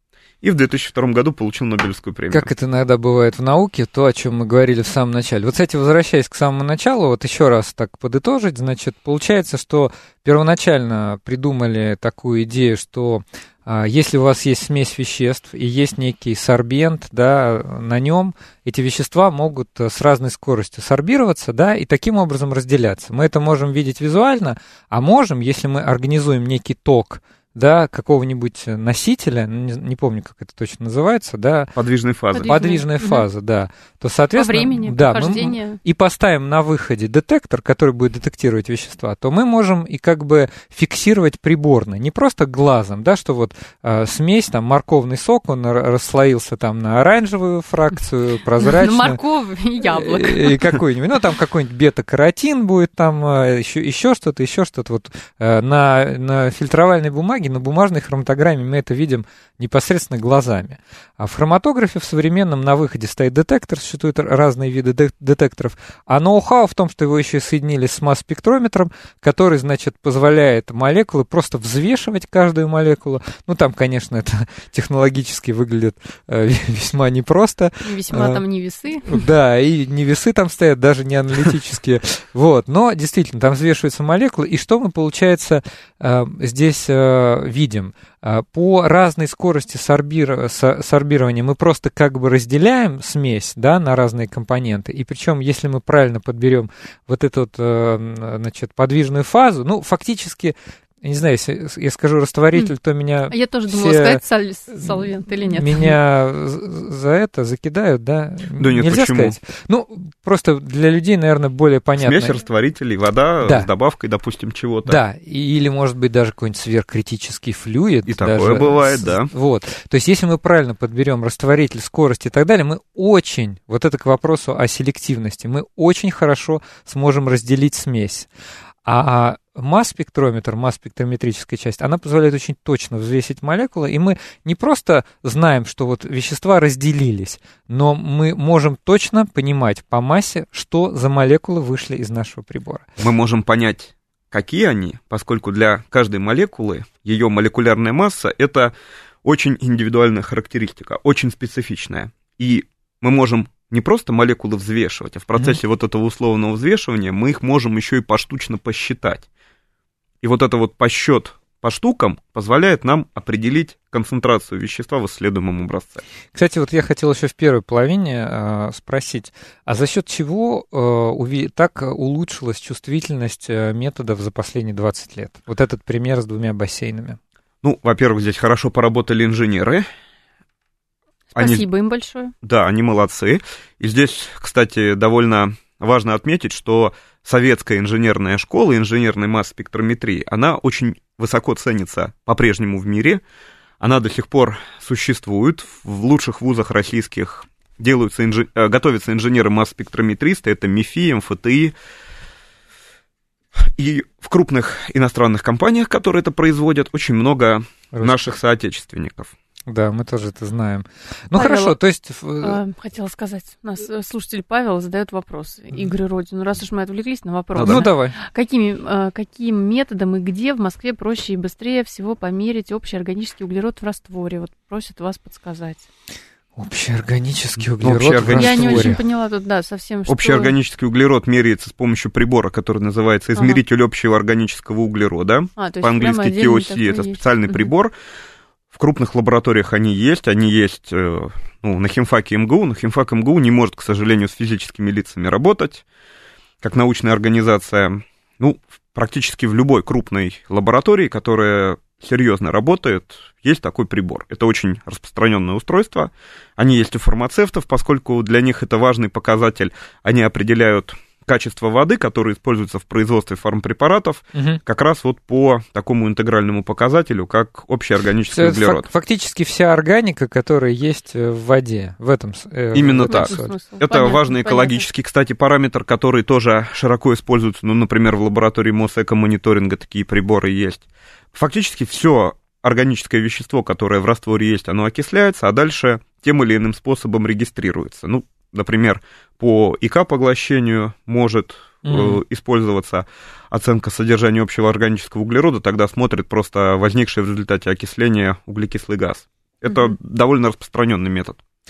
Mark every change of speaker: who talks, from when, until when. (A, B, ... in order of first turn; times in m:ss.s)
0:00.4-0:02.5 A
0:02.3-0:31.7 B
0:31.8-0:32.5 A
0:32.3-0:33.2 C
0:32.4-0:49.2 B
0:34.4-0:35.8 C
0:48.6-0:50.8 C
0:49.8-1:18.4 B
1:17.8-1:19.3 C
1:19.0-1:52.4 B
1:43.3-1:46.0 C
1:48.6-1:49.4 A
1:52.0-1:55.0 A
1:53.4-1:53.7 B
1:54.8-2:08.3 B
1:58.1-1:59.3 A
2:08.8-2:22.8 B
2:23.0-2:28.7 A
2:29.2-2:39.2 A
2:40.2-2:46.0 A
2:46.3-2:57.2 B
2:57.6-2:59.8 A
3:01.3-3:02.3 C
3:01.4-3:01.6 A
3:02.4-3:13.2 A
3:13.8-3:21.7 A
3:23.6-3:29.3 A
3:27.9-3:28.4 B
3:29.7-3:32.6 B
3:31.3-3:31.8 C
3:32.4-3:45.9 C
3:37.5-3:37.8 A
3:37.6-3:38.2 B
3:46.6-3:49.0 B
3:47.8-3:48.9 A
3:48.3-3:50.5 C
3:50.1-3:57.9 A
3:53.3-3:53.6 C
3:55.6-3:57.7 C
3:58.7-4:05.8 A
4:06.6-4:28.9 A
4:24.3-4:24.6 B
4:28.3-4:33.5 B
4:32.7-5:01.4 A
4:33.1-4:34.8 C
4:51.8-4:52.2 B
4:59.7-4:59.9 C